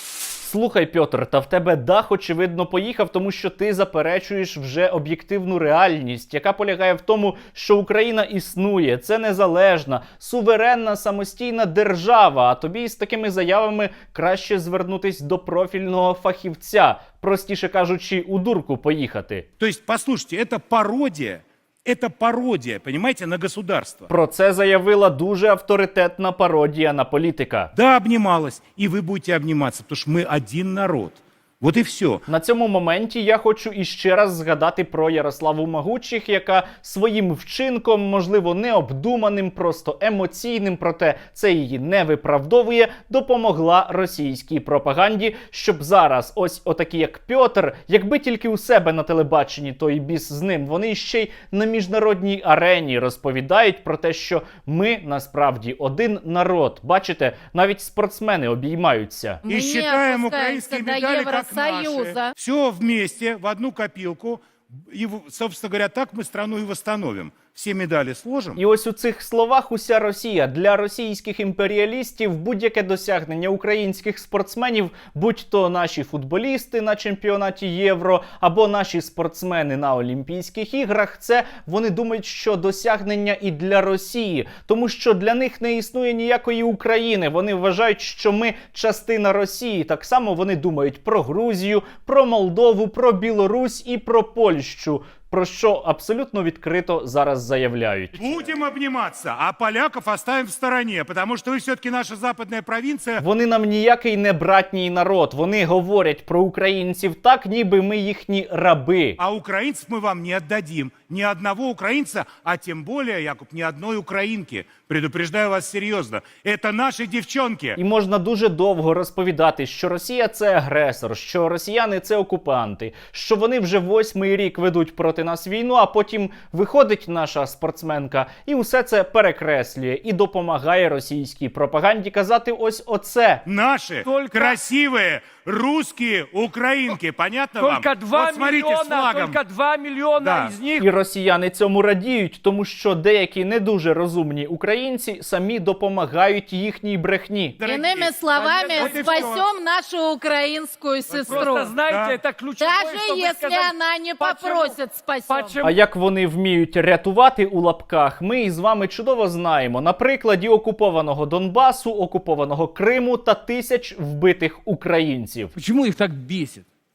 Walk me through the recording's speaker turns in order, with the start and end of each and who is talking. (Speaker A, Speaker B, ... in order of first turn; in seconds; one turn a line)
Speaker A: 0.4-19.4
Speaker B: 19.6-24.1
Speaker A: 24.1-27.7
Speaker B: 27.7-32.2
Speaker A: 32.3-59.4
Speaker C: 59.4-62.3
Speaker B: 59.5-68.6
Speaker A: 68.5-98.5
Speaker B: 98.2-103.2
Speaker A: 103.2-109.2
Speaker B: 109.2-117.8
Speaker A: 117.8-133.4
Speaker B: 133.4-139.4
Speaker D: 134.0-134.6
Speaker D: 137.6-140.9
Speaker B: 140.2-140.6
Speaker A: 140.8-147.6
Speaker B: 147.6-149.5
Speaker C: 147.6-151.7
Speaker D: 148.5-149.0
Speaker B: 151.1-152.2
Speaker D: 151.1-155.7
Speaker C: 152.6-155.6
Speaker A: 155.6-165.5
Speaker D: 165.6-166.6